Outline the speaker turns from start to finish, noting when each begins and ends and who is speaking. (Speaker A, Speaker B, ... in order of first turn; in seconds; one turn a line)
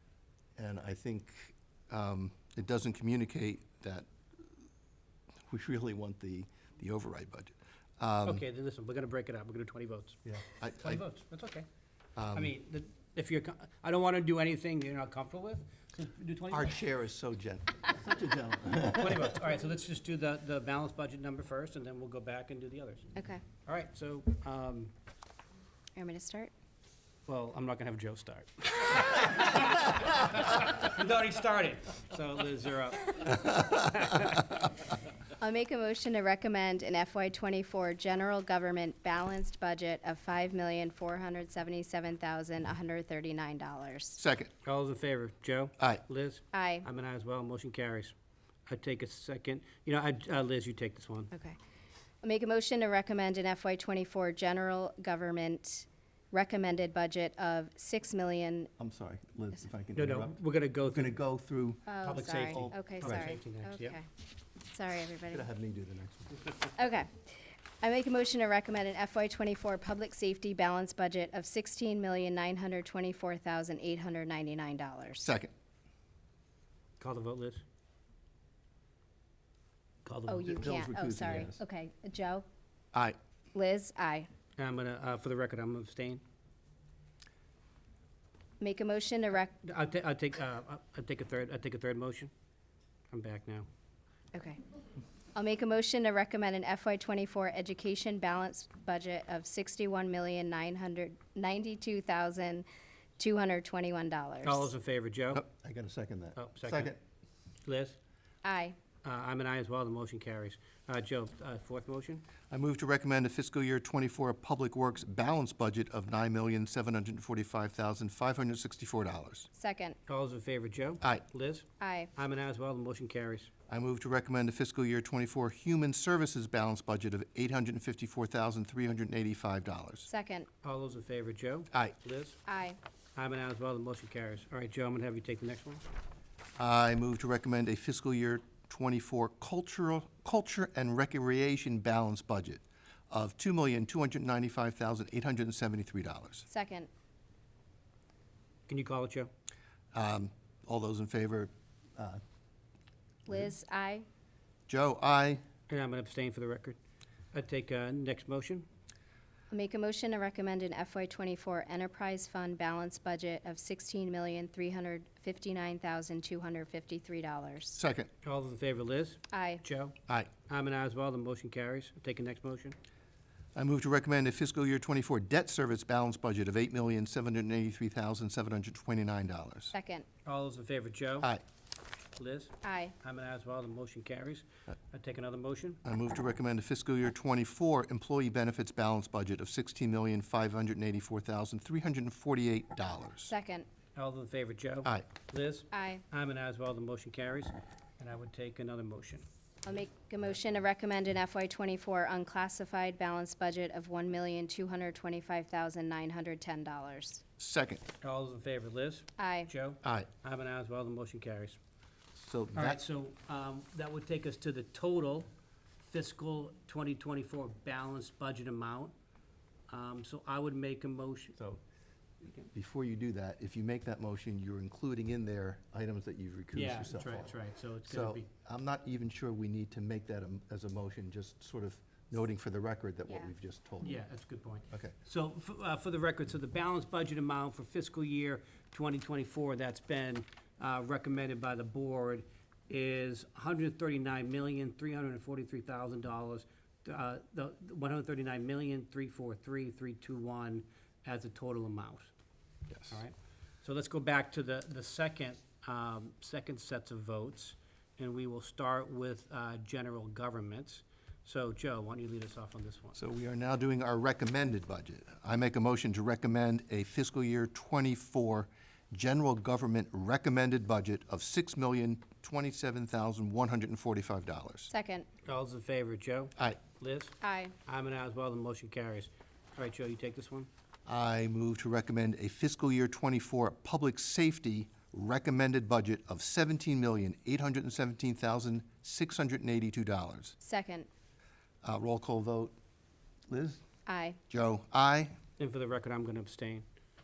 Speaker A: 0.6-4.1
Speaker A: 5.5-8.4
Speaker B: 8.2-10.2
Speaker A: 10.2-11.0
Speaker B: 10.8-11.7
Speaker A: 12.2-12.5
Speaker B: 12.3-16.8
Speaker A: 16.5-19.3
Speaker B: 18.9-23.1
Speaker C: 23.1-23.4
Speaker B: 23.6-24.9
Speaker C: 25.9-26.5
Speaker B: 27.3-34.6
Speaker C: 35.4-44.2
Speaker A: 44.2-44.5
Speaker B: 44.6-48.1
Speaker C: 46.5-46.9
Speaker B: 48.7-51.3
Speaker C: 52.2-58.7
Speaker A: 58.8-63.3
Speaker B: 59.9-61.2
Speaker C: 61.9-64.1
Speaker B: 62.0-64.0
Speaker C: 64.7-65.5
Speaker A: 65.3-66.6
Speaker C: 66.8-75.3
Speaker A: 75.2-75.5
Speaker B: 77.0-77.6
Speaker B: 80.0-80.7
Speaker C: 80.3-82.5
Speaker A: 80.6-81.6
Speaker C: 83.5-84.3
Speaker B: 84.6-86.2
Speaker C: 88.6-89.5
Speaker B: 89.6-92.3
Speaker B: 93.1-93.7
Speaker C: 94.3-94.6
Speaker C: 95.3-102.7
Speaker C: 103.2-104.7
Speaker B: 104.4-105.4
Speaker A: 105.3-107.0
Speaker B: 106.4-106.9
Speaker B: 107.6-108.0
Speaker C: 108.4-108.8
Speaker B: 109.0-112.2
Speaker A: 112.5-119.5
Speaker C: 119.5-120.0
Speaker B: 120.1-123.5
Speaker C: 121.8-122.1
Speaker A: 123.7-130.1
Speaker C: 130.1-130.5
Speaker B: 130.6-132.4
Speaker C: 132.4-132.8
Speaker B: 133.2-135.8
Speaker A: 136.6-146.4
Speaker C: 146.5-146.9
Speaker B: 148.7-149.3
Speaker A: 149.9-152.2
Speaker C: 153.3-154.0
Speaker A: 154.7-155.4
Speaker B: 155.7-156.8
Speaker B: 157.3-158.7
Speaker C: 159.5-167.8
Speaker A: 167.8-168.1
Speaker B: 168.2-172.8
Speaker C: 169.3-169.6
Speaker A: 173.6-179.7
Speaker C: 179.7-180.1
Speaker B: 180.2-181.3
Speaker B: 182.2-185.8
Speaker C: 182.6-182.9
Speaker A: 185.8-193.3
Speaker C: 193.3-193.7
Speaker B: 193.9-199.2
Speaker C: 195.7-196.0
Speaker C: 199.6-207.2
Speaker A: 207.4-207.8
Speaker B: 208.0-211.6
Speaker C: 209.2-209.5
Speaker A: 209.8-210.1
Speaker A: 212.1-212.8
Speaker B: 212.5-215.3
Speaker B: 215.8-218.9
Speaker B: 219.7-221.4
Speaker A: 222.2-234.0
Speaker B: 226.5-228.3
Speaker B: 233.8-252.1
Speaker A: 234.7-234.9
Speaker A: 252.7-253.0
Speaker B: 252.9-263.0
Speaker A: 262.9-274.7
Speaker C: 274.7-275.1
Speaker B: 275.2-280.5
Speaker C: 277.2-277.5
Speaker A: 280.9-290.4
Speaker C: 290.4-290.9
Speaker A: 291.6-292.5
Speaker A: 293.3-293.6
Speaker C: 293.9-294.2
Speaker A: 294.3-295.2
Speaker B: 295.4-296.6